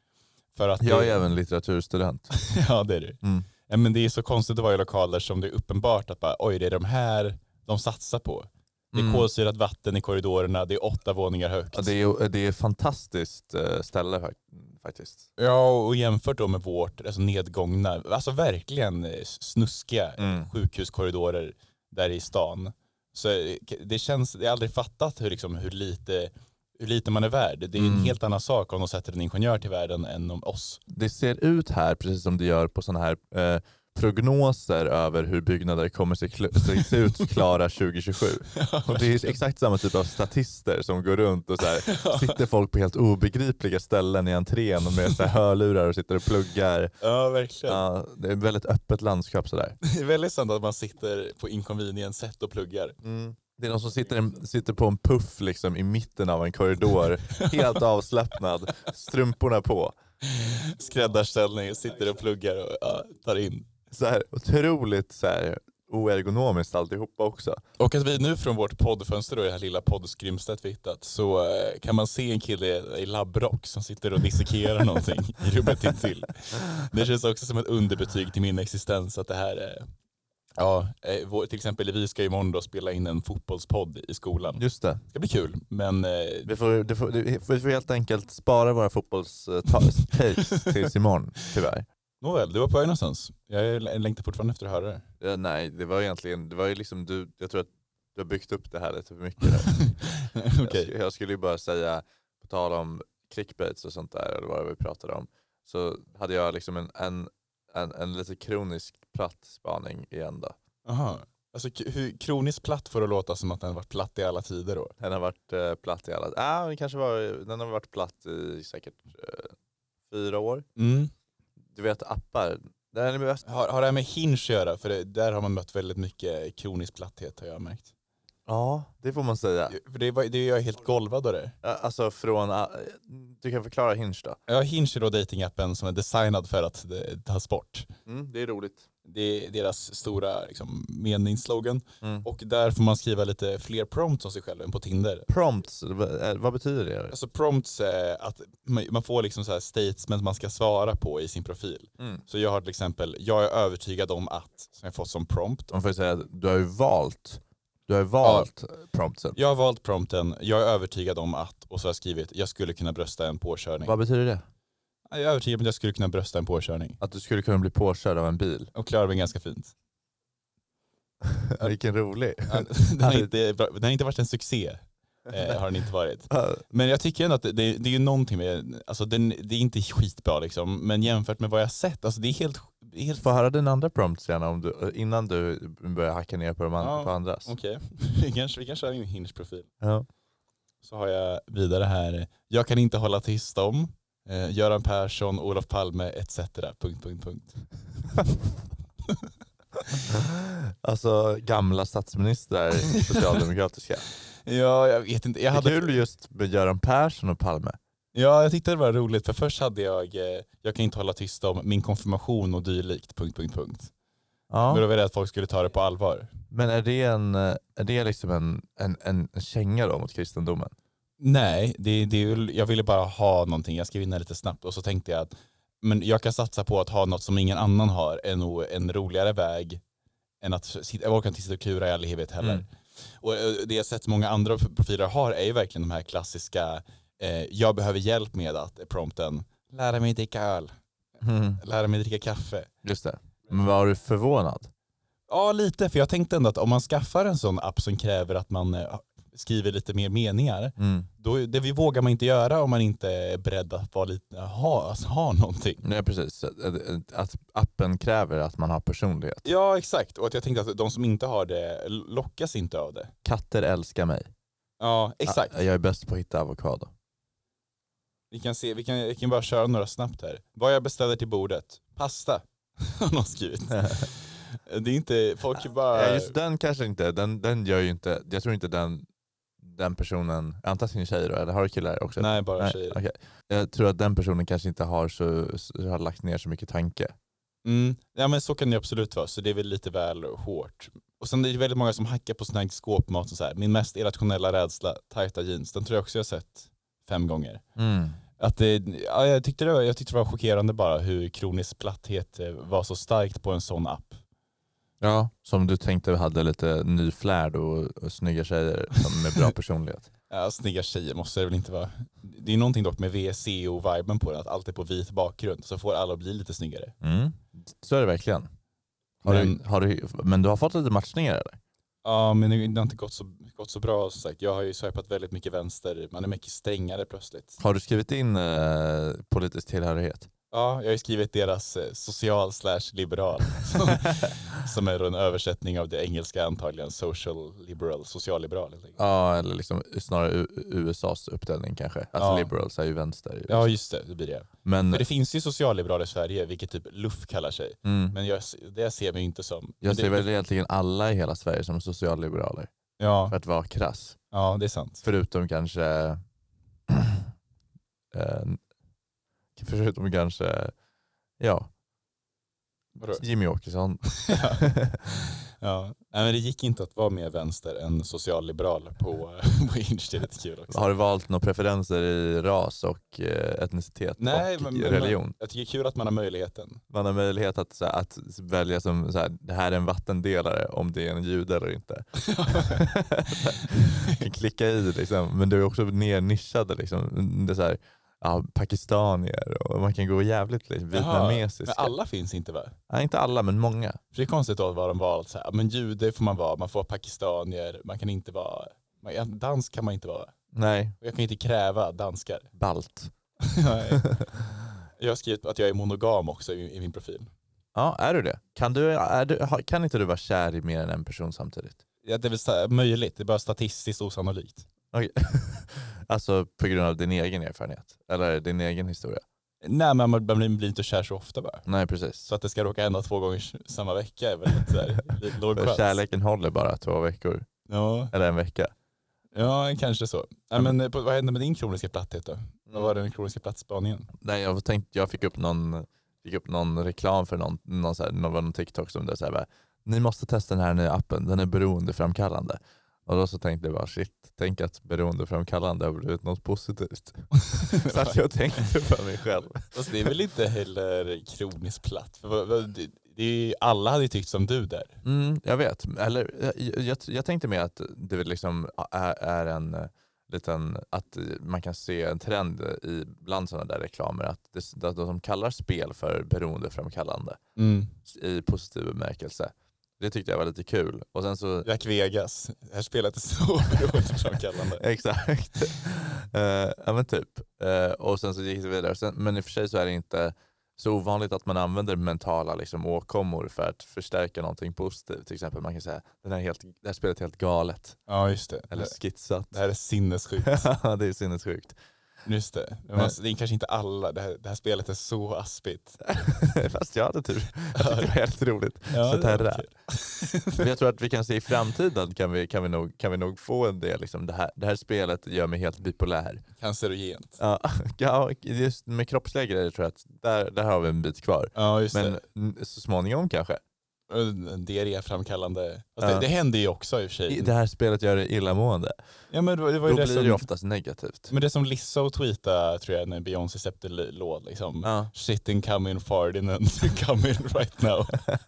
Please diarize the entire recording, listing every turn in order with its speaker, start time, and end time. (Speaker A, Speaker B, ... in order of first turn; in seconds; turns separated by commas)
Speaker A: 0.5-1.2, Speaker B: 0.8-2.3, Speaker A: 2.3-11.9, Speaker B: 3.2-3.5, Speaker B: 8.9-9.3, Speaker B: 11.7-15.3, Speaker A: 15.4-30.8, Speaker B: 20.2-20.5, Speaker B: 27.8-28.1, Speaker B: 30.9-47.0, Speaker A: 38.5-39.4, Speaker A: 41.8-42.4, Speaker A: 47.0-47.8, Speaker B: 47.7-49.8, Speaker A: 49.8-53.0, Speaker B: 53.0-60.0, Speaker A: 57.4-57.8, Speaker A: 60.2-63.7, Speaker B: 63.9-67.6, Speaker A: 67.8-79.9, Speaker A: 80.6-86.5, Speaker B: 84.6-85.0, Speaker B: 86.5-91.9, Speaker A: 92.2-95.0, Speaker B: 95.2-100.0, Speaker A: 100.2-100.9, Speaker B: 100.6-110.6, Speaker A: 110.8-114.9, Speaker B: 115.0-119.5, Speaker B: 120.1-120.7, Speaker A: 120.8-121.1, Speaker B: 121.7-123.4, Speaker A: 123.4-127.9, Speaker B: 128.4-129.8, Speaker A: 129.7-131.5, Speaker B: 131.6-134.4, Speaker A: 134.5-137.9, Speaker B: 138.1-138.8, Speaker A: 139.0-145.3, Speaker B: 142.0-142.3, Speaker B: 145.3-147.1, Speaker A: 147.1-155.7, Speaker B: 155.7-159.4, Speaker A: 158.2-158.5, Speaker A: 159.3-163.9, Speaker B: 163.8-164.4, Speaker A: 165.1-167.0, Speaker B: 167.0-168.7, Speaker A: 168.7-169.7, Speaker B: 171.3-173.3, Speaker A: 172.5-183.2, Speaker B: 175.3-175.6, Speaker B: 176.3-176.6, Speaker B: 183.2-187.5, Speaker A: 186.8-189.7, Speaker B: 189.8-190.1, Speaker A: 190.8-197.7, Speaker B: 200.1-204.1, Speaker A: 202.9-203.3, Speaker A: 204.4-205.9, Speaker B: 205.5-207.8, Speaker A: 208.1-213.9, Speaker B: 214.5-214.8, Speaker A: 214.7-216.3, Speaker B: 216.5-220.7, Speaker A: 221.2-229.8, Speaker A: 230.4-232.7, Speaker A: 233.2-240.7, Speaker B: 241.2-241.6, Speaker A: 241.6-242.7, Speaker B: 242.8-244.7, Speaker A: 245.3-255.8, Speaker B: 250.8-251.1, Speaker B: 255.8-259.4, Speaker A: 259.4-263.1, Speaker B: 263.2-264.3, Speaker A: 264.8-265.6, Speaker B: 265.2-266.9, Speaker A: 268.3-276.4, Speaker B: 275.6-279.1, Speaker B: 279.6-287.1, Speaker A: 282.2-283.0, Speaker A: 287.6-297.6, Speaker B: 297.8-298.2, Speaker A: 298.4-304.2, Speaker B: 305.0-310.1, Speaker A: 310.3-316.9, Speaker B: 317.0-318.5, Speaker B: 319.2-321.6, Speaker A: 319.2-319.6, Speaker A: 322.0-327.6, Speaker B: 327.6-330.3, Speaker A: 330.5-339.0, Speaker B: 339.0-343.7, Speaker A: 342.1-342.5, Speaker A: 343.5-350.3, Speaker B: 344.6-345.1, Speaker B: 347.8-348.1, Speaker B: 349.8-352.7, Speaker A: 353.0-353.4, Speaker B: 353.3-354.2, Speaker A: 354.3-355.0, Speaker B: 355.0-356.2, Speaker B: 356.9-357.2, Speaker B: 358.1-358.6, Speaker B: 359.6-360.7, Speaker B: 361.4-361.7, Speaker A: 363.0-363.2, Speaker B: 363.1-365.0, Speaker A: 364.3-364.6, Speaker A: 365.6-370.8, Speaker B: 370.7-375.4, Speaker A: 374.2-376.8, Speaker B: 376.9-391.9, Speaker A: 382.2-382.9, Speaker A: 383.6-384.2, Speaker A: 390.9-392.8, Speaker B: 392.9-394.0, Speaker A: 394.1-400.3, Speaker B: 400.5-401.0, Speaker A: 401.0-402.5, Speaker B: 402.6-403.1, Speaker A: 403.4-404.0, Speaker B: 403.9-404.3, Speaker A: 405.0-407.3, Speaker B: 407.7-411.8, Speaker A: 412.0-414.7, Speaker B: 414.9-419.2, Speaker A: 419.6-421.6, Speaker B: 421.6-422.3, Speaker A: 422.3-426.0, Speaker B: 425.5-427.5, Speaker A: 427.7-428.1, Speaker B: 428.1-428.7, Speaker A: 429.3-434.1, Speaker B: 434.2-450.1, Speaker A: 447.5-448.6, Speaker A: 449.7-455.0, Speaker B: 455.0-467.4, Speaker A: 467.6-467.9, Speaker B: 468.0-471.7, Speaker A: 471.6-474.8, Speaker B: 474.8-488.0, Speaker A: 488.1-488.9, Speaker B: 488.7-489.6, Speaker A: 489.5-490.7, Speaker B: 490.4-491.8, Speaker A: 492.2-496.0, Speaker B: 496.1-499.7, Speaker A: 497.7-498.1, Speaker A: 498.9-500.6, Speaker B: 500.6-506.4, Speaker A: 506.6-507.4, Speaker B: 507.4-513.6, Speaker A: 511.5-512.2, Speaker A: 514.1-517.5, Speaker B: 516.0-516.3, Speaker B: 517.3-519.0, Speaker A: 519.3-520.5, Speaker B: 519.8-521.3, Speaker A: 521.3-528.2, Speaker B: 524.8-525.1